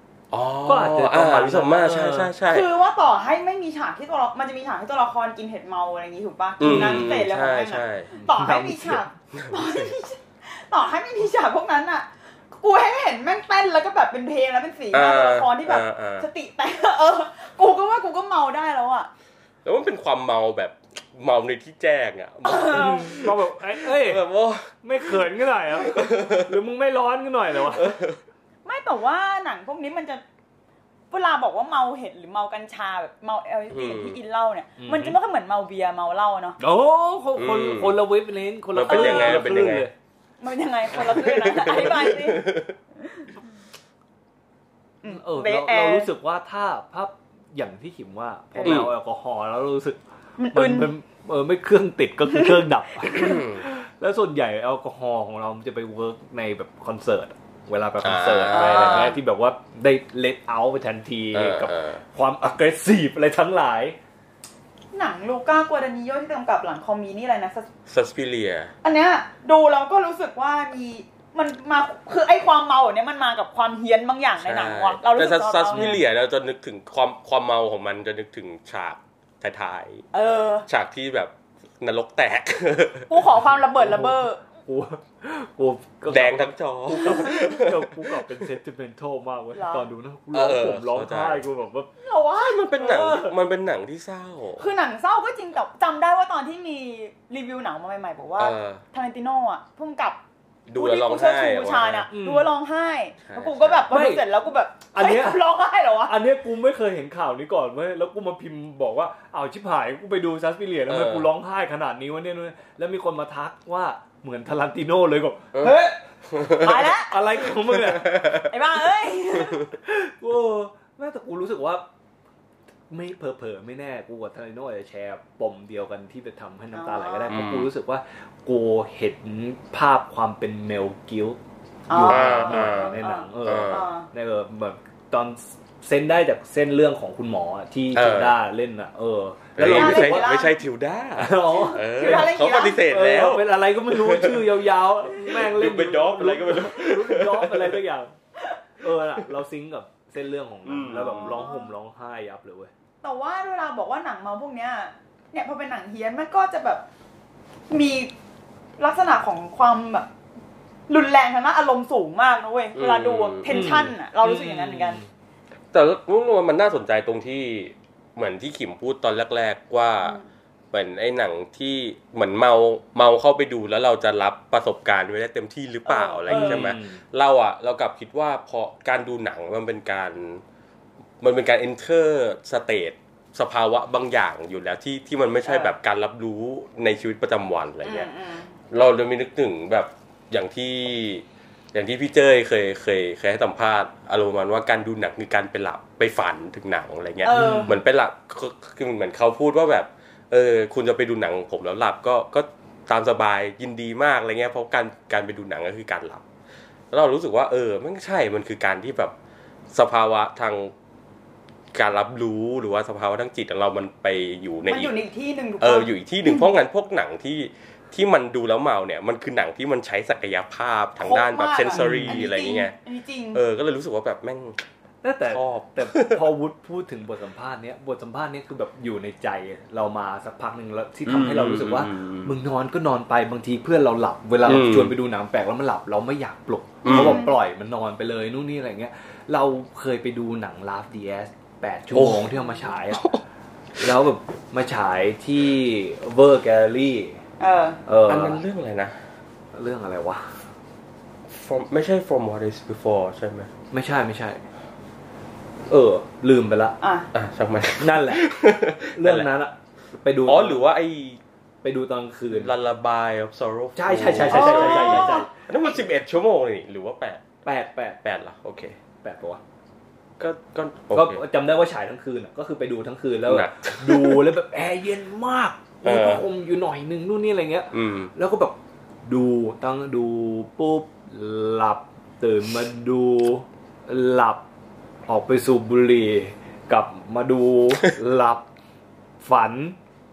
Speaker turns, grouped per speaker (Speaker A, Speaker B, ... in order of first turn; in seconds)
Speaker A: 0.3-2.7, 6.6-8.1, 9.3-9.9, 14.9-16.3, 19.6-26.6, 27.6-28.2, 33.7-34.2, 37.4-38.0, 38.7-39.9, 40.9-42.8, 48.6-48.9, 53.2-53.6, 58.0-59.2, 61.3-62.0, 67.9-68.7, 74.4-80.0, 80.7-83.2, 86.1-88.2, 90.3-91.5, 92.4-94.7, 98.4-98.8, 100.7-102.1, 103.3-103.9, 110.9-111.3, 116.3-116.9, 117.6-118.5, 127.3-127.7, 132.1-133.9, 137.9-138.4, 139.6-144.5, 145.2-147.8, 150.7-151.5, 162.8-163.8, 165.7-170.2, 170.7-180.4, 181.2-188.1, 188.7-206.2, 206.9-209.1, 209.7-210.7, 211.7-214.9, 215.6-222.8, 223.3-224.6, 225.3-226.2, 231.1-232.3, 234.4-235.0, 236.8-237.2, 241.9-242.4, 242.9-243.2, 248.1-249.0, 251.3-253.5, 257.1-259.3, 260.2-261.2, 262.3-267.2, 268.0-268.8, 270.2-271.2, 273.3-274.4, 275.8-276.2, 277.7-278.1
Speaker B: 0.7-2.3, 6.6-7.2, 8.1-9.1, 22.7-24.2, 24.8-28.0, 34.8-35.2, 36.6-39.9, 41.6-42.0, 45.1-50.0, 50.5-64.0, 75.7-76.0, 83.8-91.9, 92.8-93.3, 102.1-102.5, 103.9-104.3, 104.9-105.4, 106.1-116.0, 116.6-118.2, 119.8-121.9, 122.9-131.4, 131.9-140.3, 141.2-148.1, 148.8-152.7, 163.5-165.1, 176.3-177.0, 197.3-197.8, 221.7-222.2, 225.0-243.2, 243.8-247.2, 247.9-248.4, 249.5-250.4, 253.7-254.4, 255.7-256.8, 257.8-258.3, 258.9-260.6, 261.6-262.5, 263.8-265.3, 267.4-268.0, 269.0-269.4, 270.9-284.4, 285.1-288.5, 289.2-289.8
Speaker C: 2.5-19.1, 22.5-23.2, 28.6-30.2, 31.1-36.6, 38.9-39.4, 40.4-43.3, 45.0-46.1, 48.5-48.9, 50.4-50.9, 58.5-59.2, 64.9-67.7, 68.8-76.0, 80.1-80.7, 83.1-84.4, 89.6-89.9, 92.0-93.2, 94.6-100.2, 100.8-106.1, 116.6-117.1, 118.5-119.6, 126.7-127.3, 131.9-134.1, 139.6-140.6, 141.6-142.8, 151.0-151.7, 153.0-156.8, 157.7-158.1, 158.8-160.1, 160.9-165.0, 175.9-176.7, 185.5-185.7, 187.8-188.5, 197.2-197.8, 214.7-216.5, 221.0-223.4, 236.9-237.4, 247.4-247.8, 256.8-257.1, 264.3-265.3